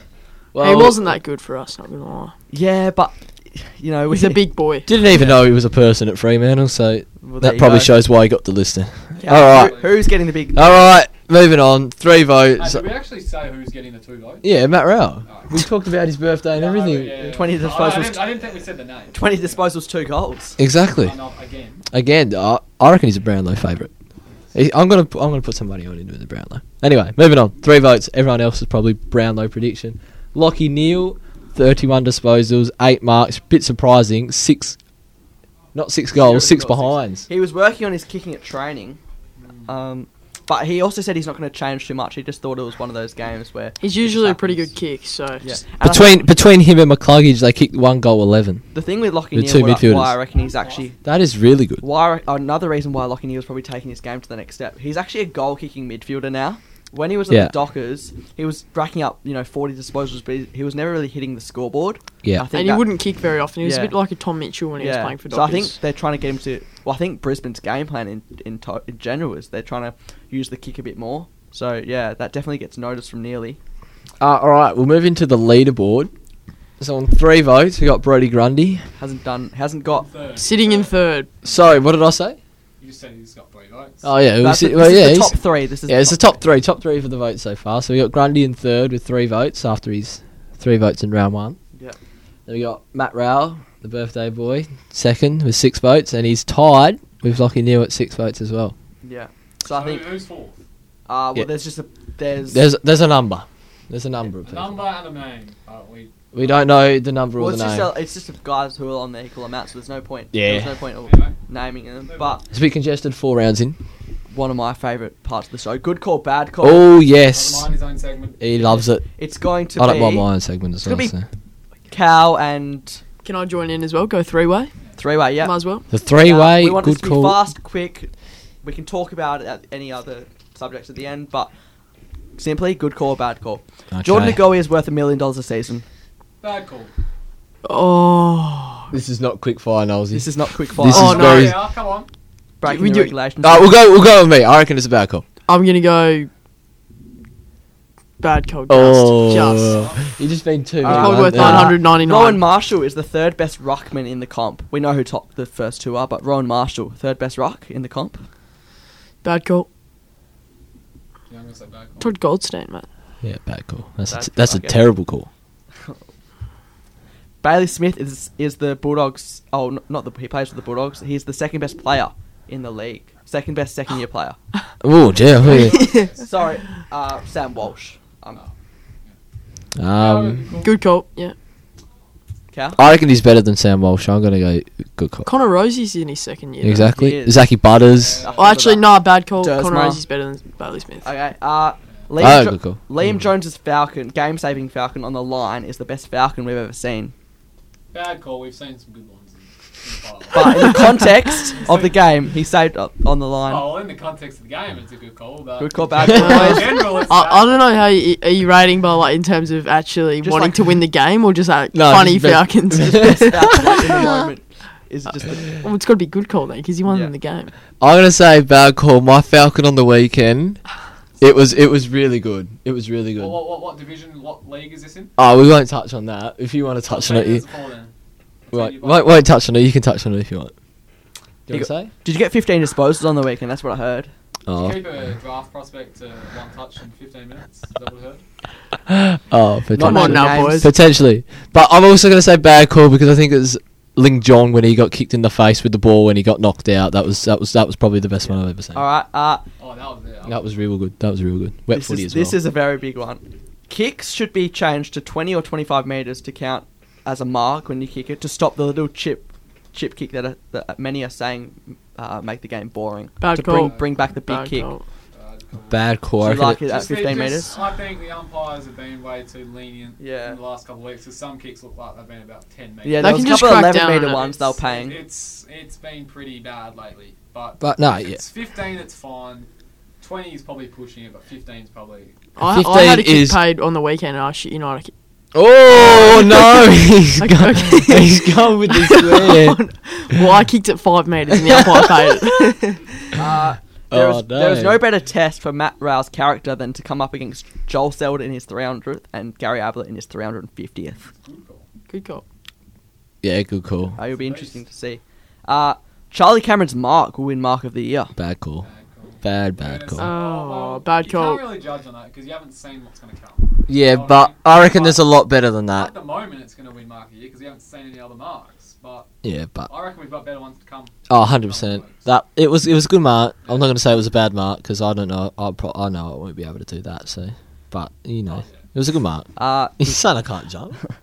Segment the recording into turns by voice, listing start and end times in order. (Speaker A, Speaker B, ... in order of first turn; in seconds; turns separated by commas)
Speaker A: 0.5-1.1, Speaker B: 0.6-2.3, Speaker C: 2.5-4.5, Speaker B: 4.1-4.9, Speaker A: 4.9-9.8, Speaker C: 5.1-5.5, Speaker C: 7.2-8.0, Speaker C: 9.2-10.9, Speaker D: 9.2-9.9, Speaker A: 10.5-12.8, Speaker D: 12.6-14.5, Speaker A: 14.4-17.2, Speaker D: 15.3-15.6, Speaker D: 16.5-19.6, Speaker C: 17.2-18.4, Speaker C: 19.1-20.6, Speaker A: 20.6-21.2, Speaker D: 21.0-21.8, Speaker A: 21.9-23.9, Speaker A: 24.5-34.8, Speaker A: 35.7-37.3, Speaker C: 36.1-39.0, Speaker D: 39.4-39.7, Speaker C: 39.7-44.7, Speaker B: 43.8-45.6, Speaker C: 45.4-46.3, Speaker A: 45.8-48.7, Speaker C: 48.7-51.0, Speaker A: 49.3-50.2, Speaker D: 50.3-50.9, Speaker A: 51.0-51.8, Speaker C: 51.8-62.9, Speaker B: 62.5-65.8, Speaker C: 63.6-63.9, Speaker C: 64.8-73.6, Speaker A: 74.2-76.1, Speaker A: 76.8-78.9, Speaker C: 79.0-80.1, Speaker D: 79.9-81.8, Speaker B: 80.4-81.3, Speaker A: 81.4-82.4, Speaker D: 82.8-84.1, Speaker A: 84.0-85.3, Speaker C: 84.4-86.4, Speaker A: 85.9-91.6, Speaker A: 92.5-98.8, Speaker C: 99.0-100.1, Speaker D: 99.7-100.6, Speaker C: 101.1-102.7, Speaker A: 102.5-104.8, Speaker D: 104.3-106.8, Speaker A: 106.3-107.9, Speaker C: 107.4-112.4, Speaker A: 110.3-110.7, Speaker D: 111.0-111.4, Speaker D: 112.1-112.4, Speaker A: 112.5-113.8, Speaker C: 114.3-116.9, Speaker A: 116.6-117.7, Speaker D: 117.3-118.9, Speaker A: 118.4-119.0, Speaker C: 119.2-120.3, Speaker A: 119.8-121.3, Speaker C: 120.8-121.1, Speaker C: 121.9-123.0, Speaker B: 123.2-124.7, Speaker C: 125.0-128.1, Speaker B: 125.4-125.9, Speaker A: 125.9-127.4, Speaker C: 128.6-131.5, Speaker C: 132.4-135.8, Speaker A: 133.9-134.4, Speaker D: 136.4-136.9, Speaker B: 137.7-138.9, Speaker A: 138.9-141.6, Speaker C: 140.1-141.4, Speaker B: 140.9-141.5, Speaker D: 140.9-142.1, Speaker C: 142.6-143.7, Speaker B: 142.6-143.1, Speaker A: 143.4-145.2, Speaker B: 145.5-146.3, Speaker B: 148.2-149.8, Speaker A: 148.7-151.8, Speaker D: 149.6-150.2, Speaker C: 150.8-158.2, Speaker B: 150.8-152.4, Speaker B: 159.2-159.7, Speaker D: 161.3-162.1, Speaker B: 162.0-162.9, Speaker A: 163.2-165.3, Speaker C: 164.1-164.8, Speaker C: 167.4-174.4, Speaker A: 174.8-175.9, Speaker D: 175.2-176.3, Speaker B: 175.5-176.1, Speaker C: 176.1-178.4, Speaker A: 179.8-180.5, Speaker D: 179.9-180.8, Speaker B: 180.6-181.3, Speaker C: 182.5-182.8, Speaker A: 182.8-185.3, Speaker B: 185.3-186.9, Speaker A: 186.6-188.3, Speaker C: 186.8-187.5, Speaker D: 187.9-188.6, Speaker C: 188.2-190.0, Speaker B: 188.4-191.1, Speaker C: 191.0-197.1, Speaker A: 192.2-193.2, Speaker D: 197.9-201.0, Speaker C: 200.3-203.7, Speaker D: 201.5-201.9, Speaker D: 203.4-207.6, Speaker C: 205.6-206.8, Speaker A: 206.0-206.4, Speaker B: 206.1-213.7, Speaker C: 210.2-210.7, Speaker A: 211.7-214.2, Speaker C: 212.8-215.6, Speaker B: 215.6-217.5, Speaker C: 216.9-217.1, Speaker A: 217.8-220.6, Speaker A: 221.2-223.4, Speaker D: 223.2-225.1, Speaker A: 225.2-227.4, Speaker D: 226.9-227.9, Speaker D: 228.5-229.3, Speaker A: 228.5-230.5, Speaker A: 231.5-231.9, Speaker C: 231.5-234.1, Speaker A: 234.5-234.8, Speaker D: 234.5-238.2, Speaker A: 238.9-248.8, Speaker C: 239.7-240.7, Speaker B: 239.8-240.7, Speaker C: 248.7-249.4, Speaker D: 249.6-250.4, Speaker A: 250.3-252.4, Speaker C: 251.7-264.7, Speaker B: 263.2-264.8, Speaker D: 263.6-263.9, Speaker D: 265.1-265.9, Speaker A: 265.7-266.6, Speaker C: 266.2-267.5, Speaker D: 266.4-273.6, Speaker C: 270.0-270.4, Speaker C: 272.8-275.0, Speaker B: 273.0-274.3, Speaker D: 274.1-279.5, Speaker A: 277.6-278.2, Speaker D: 280.0-282.2, Speaker B: 282.4-284.9, Speaker A: 282.4-283.4, Speaker A: 285.3-289.6, Speaker B: 285.8-292.9, Speaker A: 291.3-292.6, Speaker C: 293.1-301.1, Speaker A: 293.9-294.8, Speaker D: 301.1-301.7, Speaker B: 301.9-302.2, Speaker A: 303.2-304.0, Speaker C: 304.0-308.1, Speaker D: 304.1-304.6, Speaker A: 308.2-308.7, Speaker D: 308.6-315.1, Speaker A: 309.2-310.1, Speaker B: 310.0-311.4, Speaker A: 313.7-315.9, Speaker D: 315.7-319.1, Speaker A: 319.2-319.7, Speaker D: 319.6-322.1, Speaker A: 321.1-330.8, Speaker D: 323.4-323.7, Speaker D: 328.3-328.7, Speaker C: 329.4-330.0